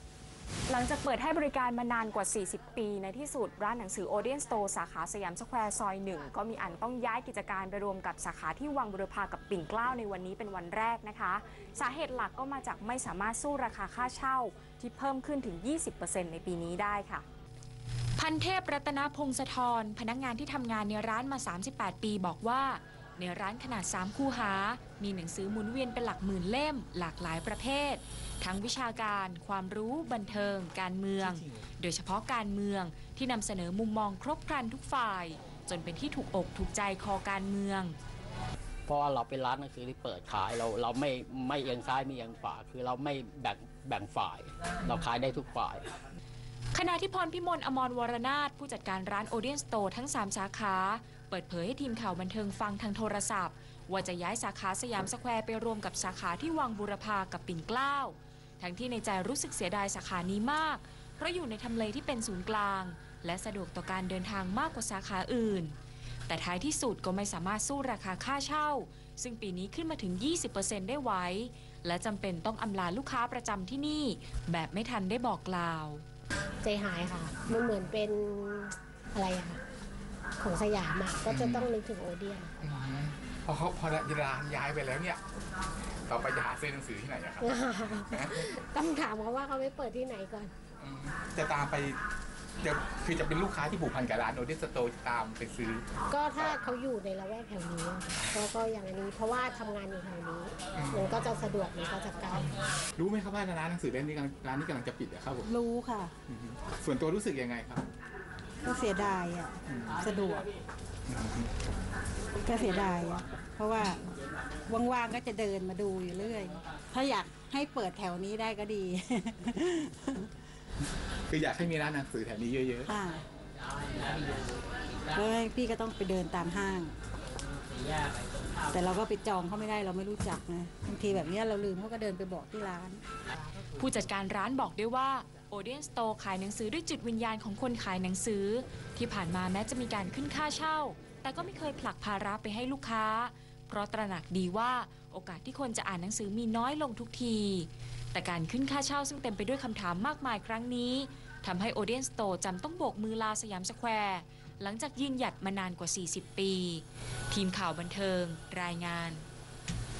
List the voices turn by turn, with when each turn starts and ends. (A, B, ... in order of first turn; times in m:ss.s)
0:00.7-0:17.2 A
0:18.2-0:38.0 A
0:38.9-0:45.9 B
0:46.7-1:05.7 A
1:06.3-1:16.0 A
1:16.6-1:19.6 C
1:20.4-1:22.5 C
1:21.3-1:21.6 D
1:22.7-1:25.2 D
1:26.1-1:27.5 D
1:27.4-1:30.5 C
1:30.8-1:31.9 D
1:32.6-1:35.8 D
1:36.1-1:42.7 C
1:43.0-1:45.5 D
1:45.4-1:46.1 E
1:46.3-1:47.8 D
1:48.6-1:50.5 E
1:51.1-1:51.5 D
1:52.4-1:54.0 E
1:54.7-2:00.3 E
2:01.3-2:02.9 D
2:02.8-2:03.2 E
2:05.1-2:06.9 E
2:08.7-2:13.0 E
2:13.8-2:39.2 A